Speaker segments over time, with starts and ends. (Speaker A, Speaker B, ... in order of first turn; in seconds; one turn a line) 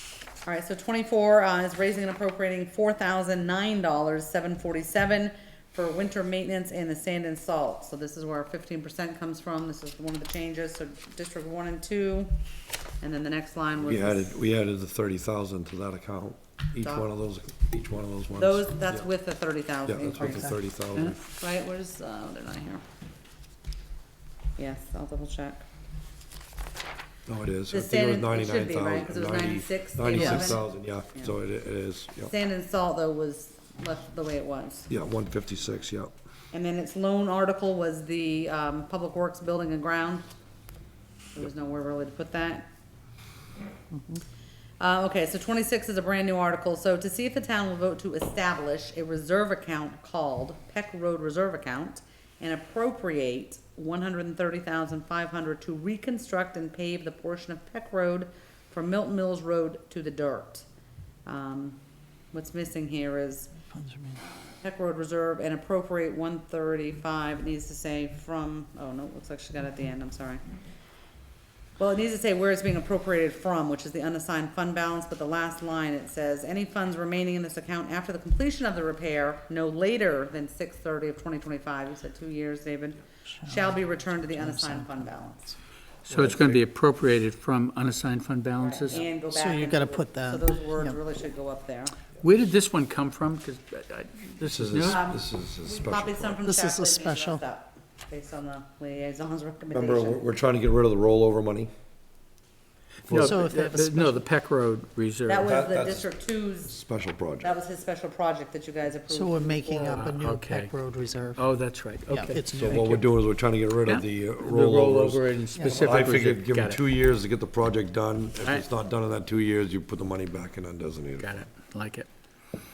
Speaker A: 0.4-12.3
Speaker A: 13.0-14.3
Speaker B: 13.8-19.1
Speaker A: 16.8-17.1
Speaker A: 18.4-20.6
Speaker B: 19.9-21.2
Speaker C: 20.2-20.5
Speaker A: 21.2-22.8
Speaker A: 24.6-25.6
Speaker B: 27.3-32.3
Speaker A: 27.7-30.6
Speaker C: 30.1-30.5
Speaker A: 32.3-34.9
Speaker B: 34.9-36.1
Speaker A: 36.5-40.2
Speaker A: 41.3-42.7
Speaker C: 43.9-44.2
Speaker A: 44.8-60.7
Speaker A: 61.2-61.8
Speaker A: 62.3-63.6
Speaker C: 63.7-64.2
Speaker A: 64.3-70.4
Speaker A: 71.8-85.5
Speaker C: 83.4-83.8
Speaker C: 84.3-85.0
Speaker D: 86.0-89.0
Speaker B: 86.1-86.6
Speaker A: 88.6-91.9
Speaker C: 89.3-91.0
Speaker D: 92.2-95.0
Speaker B: 94.4-96.4
Speaker A: 94.9-100.2
Speaker C: 96.4-97.4
Speaker B: 99.7-101.7
Speaker B: 103.1-103.4
Speaker D: 103.1-105.5
Speaker C: 103.1-104.2
Speaker A: 105.3-106.8
Speaker B: 105.4-106.0
Speaker B: 106.7-107.5
Speaker A: 107.4-110.2
Speaker C: 109.1-111.4
Speaker D: 109.9-110.7
Speaker D: 111.3-113.0
Speaker C: 112.1-112.8
Speaker B: 112.5-121.3
Speaker D: 113.8-116.8
Speaker C: 115.5-115.9
Speaker D: 121.2-122.1